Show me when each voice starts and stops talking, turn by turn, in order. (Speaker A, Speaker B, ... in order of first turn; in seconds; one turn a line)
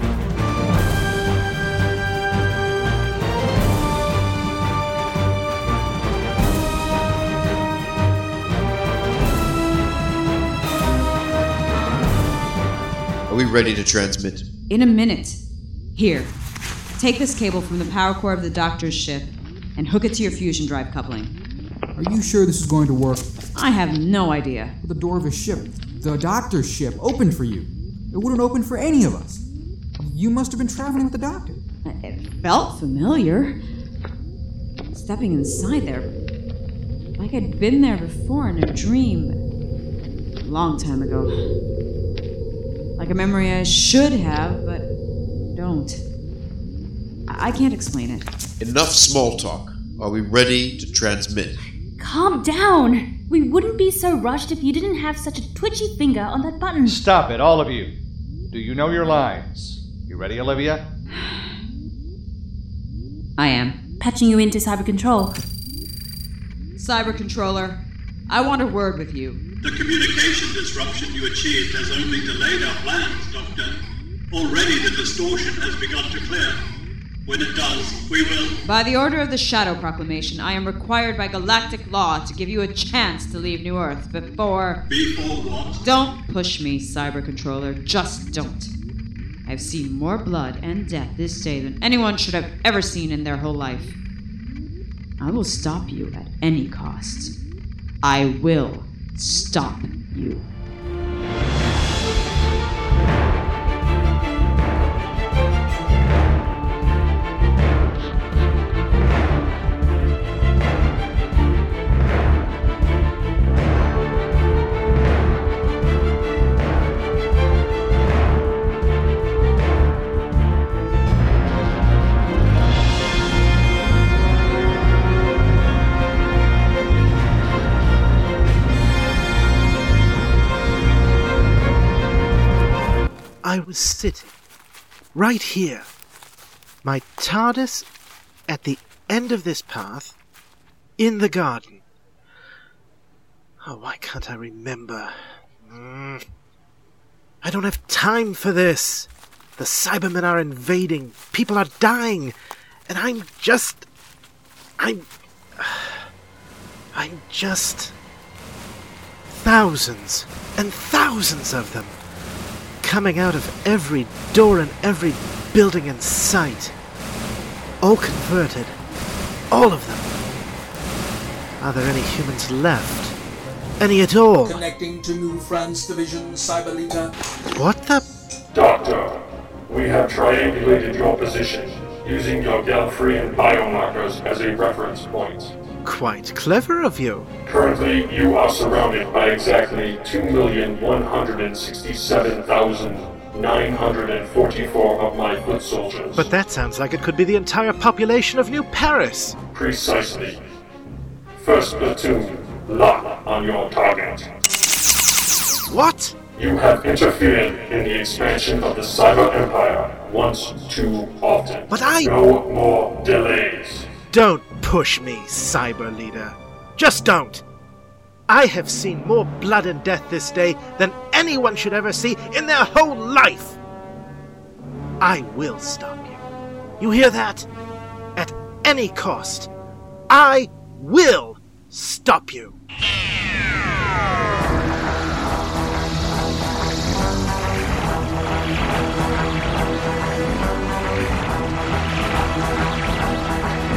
Speaker A: 13.3-14.5
Speaker B: 14.7-15.4
Speaker B: 15.9-16.3
Speaker B: 17.0-21.3
Speaker C: 22.0-23.3
Speaker B: 23.6-24.8
Speaker C: 24.8-29.4
Speaker C: 30.0-31.6
Speaker B: 31.8-33.5
Speaker B: 34.9-36.1
Speaker B: 37.2-39.4
Speaker B: 40.4-41.4
Speaker B: 43.0-44.9
Speaker B: 45.5-46.0
Speaker B: 47.3-48.3
Speaker A: 48.6-51.6
Speaker D: 52.0-57.0
Speaker E: 56.9-57.9
Speaker E: 58.5-60.8
Speaker B: 61.1-61.5
Speaker B: 63.4-63.8
Speaker D: 64.0-65.3
Speaker B: 66.8-69.4
Speaker F: 69.6-73.8
Speaker F: 74.3-76.5
Speaker F: 77.3-78.5
Speaker B: 78.6-84.8
Speaker F: 84.9-85.8
Speaker B: 85.8-88.7
Speaker B: 89.5-94.0
Speaker B: 95.2-97.3
Speaker B: 98.0-100.5
Speaker G: 133.4-134.3
Speaker G: 135.1-135.9
Speaker G: 136.8-137.9
Speaker G: 138.5-140.2
Speaker G: 141.0-141.8
Speaker G: 143.6-146.2
Speaker G: 147.4-152.3
Speaker G: 152.9-153.9
Speaker G: 154.8-155.1
Speaker G: 155.6-156.1
Speaker G: 156.9-157.9
Speaker G: 159.3-162.0
Speaker G: 162.8-166.8
Speaker G: 167.8-168.8
Speaker G: 169.5-170.1
Speaker G: 171.6-173.2
Speaker G: 173.8-174.6
Speaker H: 174.4-177.1
Speaker G: 177.6-178.1
Speaker I: 178.5-185.5
Speaker G: 185.8-187.3
Speaker I: 187.5-196.3
Speaker G: 196.2-199.4
Speaker I: 199.5-200.4
Speaker I: 201.4-204.3
Speaker G: 205.7-206.2
Speaker I: 206.3-213.9
Speaker G: 211.7-212.1
Speaker G: 214.1-217.4
Speaker G: 218.3-223.6
Speaker G: 225.0-226.2
Speaker G: 226.8-227.5
Speaker G: 228.2-229.5
Speaker G: 230.1-232.6